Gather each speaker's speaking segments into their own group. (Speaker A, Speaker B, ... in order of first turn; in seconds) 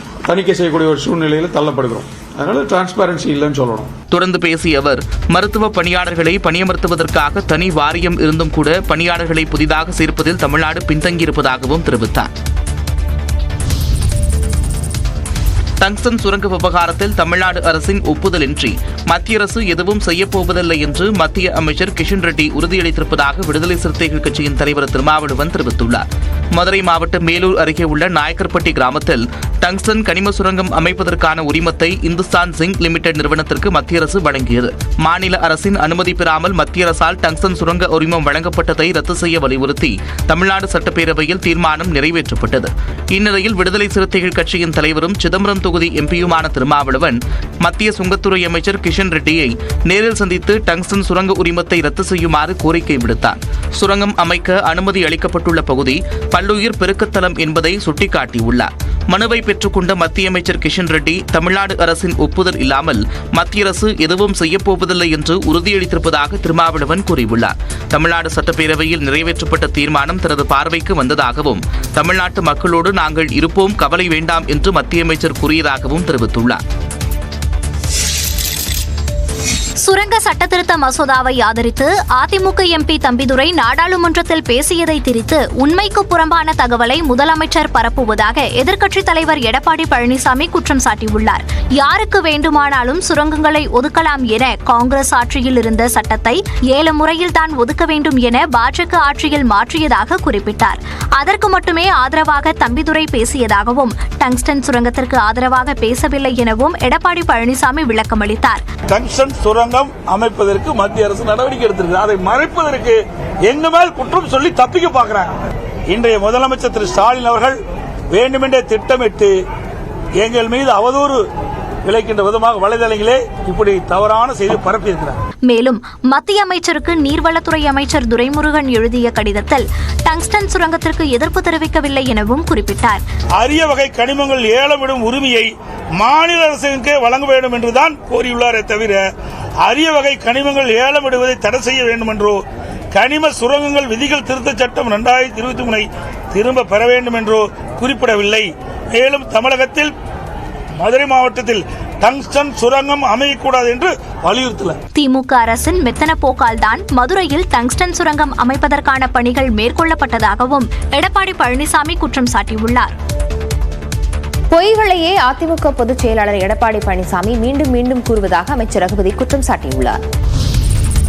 Speaker A: 0.2-3.9
Speaker B: 4.1-12.3, 15.8-76.6
Speaker C: 79.8-108.6, 125.5-133.0, 154.9-162.9
Speaker D: 108.9-115.3, 115.9-117.6, 118.1-119.3, 120.2-121.2, 121.8-125.2, 133.3-139.1, 139.6-149.9, 150.8-154.8
Speaker E: 164.5-170.0